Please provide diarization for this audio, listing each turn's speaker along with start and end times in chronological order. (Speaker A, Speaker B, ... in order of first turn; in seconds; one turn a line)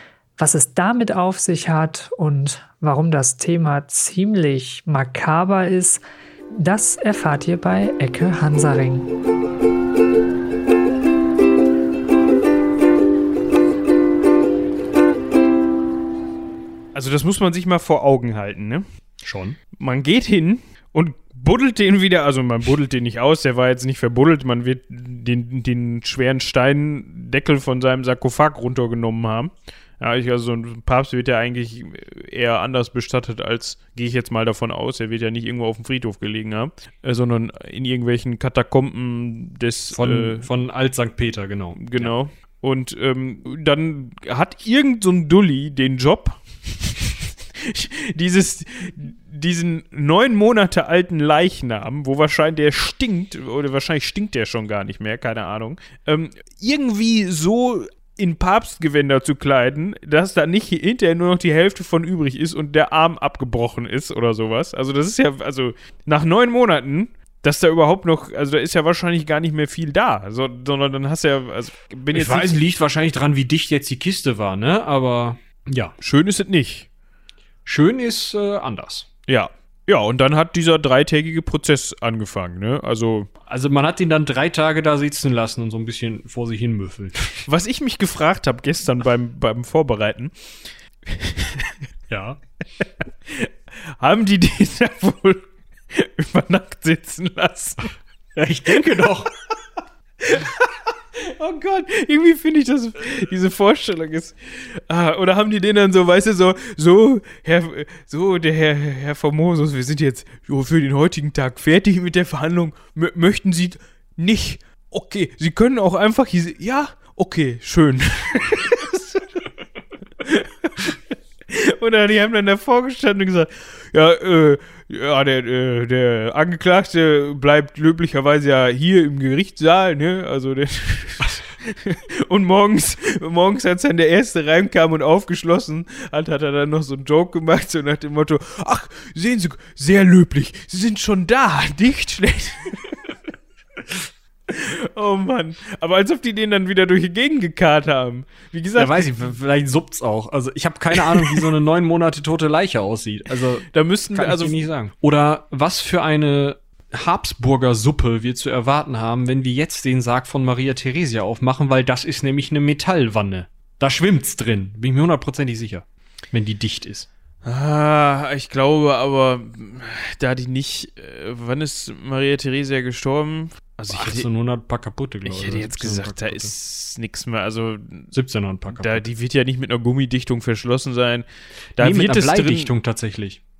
Speaker A: 0.4-9.1
Speaker B: 16.9-18.8
Speaker C: 19.2-19.6
Speaker B: 19.8-40.5
Speaker C: 39.9-42.2
Speaker B: 41.8-72.6
Speaker C: 72.1-75.9
Speaker B: 76.0-76.9
Speaker C: 77.7-79.1
Speaker B: 79.3-83.3
Speaker C: 83.5-87.4
Speaker B: 87.5-90.5
Speaker B: 91.1-91.7
Speaker C: 92.1-92.4
Speaker B: 92.8-97.9
Speaker C: 98.3-99.3
Speaker B: 98.7-99.1
Speaker B: 100.2-119.4
Speaker B: 120.2-121.0
Speaker B: 121.5-143.1
Speaker B: 144.5-149.1
Speaker C: 148.8-167.1
Speaker B: 153.7-154.7
Speaker B: 167.4-174.3
Speaker C: 173.9-176.5
Speaker B: 175.2-178.1
Speaker C: 178.1-179.1
Speaker B: 178.7-182.7
Speaker C: 181.8-183.4